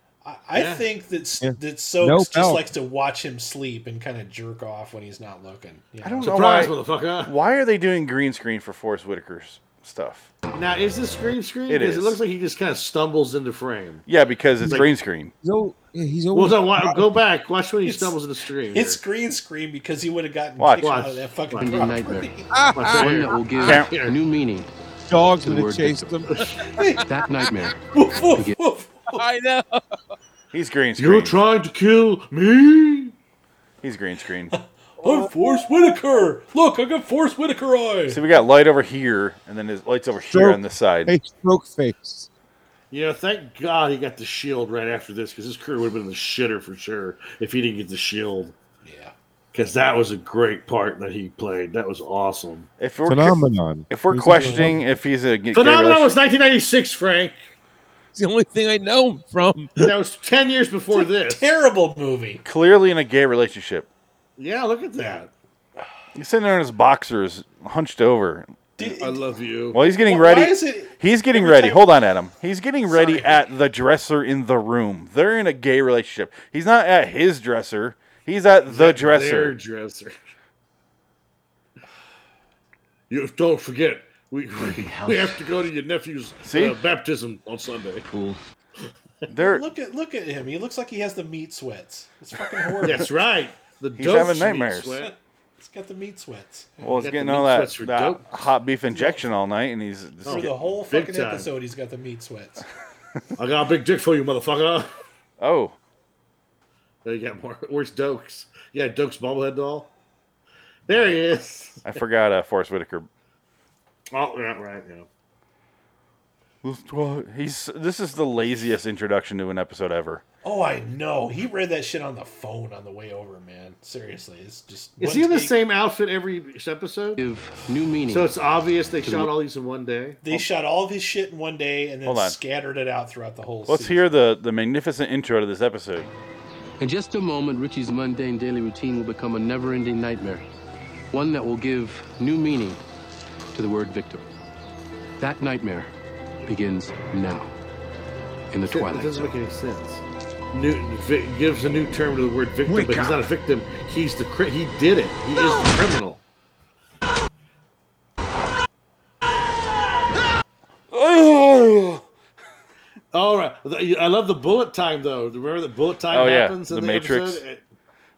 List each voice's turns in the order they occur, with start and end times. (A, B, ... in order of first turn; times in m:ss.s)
0:00.2-0:06.3 A
0:00.5-0:00.9 B
0:01.4-0:02.7 C
0:06.0-0:10.3 D
0:06.2-0:07.3 B
0:10.5-0:14.1 B
0:11.7-0:12.2 D
0:14.1-0:15.3 D
0:15.4-0:17.1 C
0:16.3-0:19.0 B
0:17.8-0:18.2 A
0:18.7-0:22.6 A
0:20.6-0:20.8 D
0:20.8-0:21.7 B
0:21.6-0:22.3 E
0:22.5-0:23.3 C
0:22.7-0:24.2 B
0:23.0-0:24.7 E
0:23.6-0:23.9 D
0:25.1-0:26.9 C
0:25.4-0:26.2 E
0:26.3-0:26.6 B
0:26.8-0:27.0 A
0:27.0-0:27.8 E
0:27.9-0:29.2 A
0:29.1-0:29.9 C
0:30.5-0:31.4 D
0:31.0-0:33.1 B
0:33.8-0:34.5 D
0:35.0-0:38.2 A
0:38.1-0:41.1 D
0:40.3-0:42.3 C
0:42.9-0:48.6 B
0:48.8-0:49.1 A
0:49.5-0:52.7 B
0:52.8-0:56.1 D
0:53.1-0:54.8 C
0:54.3-0:54.8 A
0:55.5-0:57.4 B
0:58.1-0:59.9 C
0:59.8-1:01.4 B
1:00.9-1:02.4 A
1:02.4-1:03.9 D
1:04.4-1:05.3 B
1:06.2-1:08.6 D
1:08.8-1:09.2 A
1:08.8-1:09.8 B
1:09.7-1:19.6 D
1:09.9-1:11.8 A
1:12.9-1:13.4 A
1:18.7-1:20.1 B
1:23.1-1:28.1 B
1:26.4-1:26.8 D
1:29.3-1:29.6 D
1:29.4-1:33.1 A
1:32.8-1:35.1 B
1:34.0-1:35.0 D
1:35.0-1:36.9 A
1:36.8-1:40.8 D
1:36.9-1:38.3 B
1:38.9-1:39.2 A
1:40.2-1:41.5 B
1:40.3-1:42.6 A
1:43.4-1:44.9 B
1:45.4-1:45.8 D
1:47.0-1:49.9 B
1:50.9-1:51.8 B
1:51.8-1:53.1 D
1:54.1-1:55.1 B
1:56.6-2:00.2 D
2:00.4-2:05.6 A
2:05.0-2:07.2 B
2:07.2-2:08.3 E
2:08.1-2:10.4 B
2:09.0-2:09.3 E
2:10.2-2:14.1 A
2:12.0-2:12.4 D
2:13.7-2:16.1 D
2:16.8-2:20.5 E
2:21.1-2:22.8 E
2:23.5-2:24.3 E
2:25.2-2:25.9 E
2:26.5-2:27.5 E
2:28.5-2:29.3 E
2:28.7-2:36.2 B
2:40.9-2:42.0 D
2:43.1-2:47.6 B
2:46.1-2:47.4 D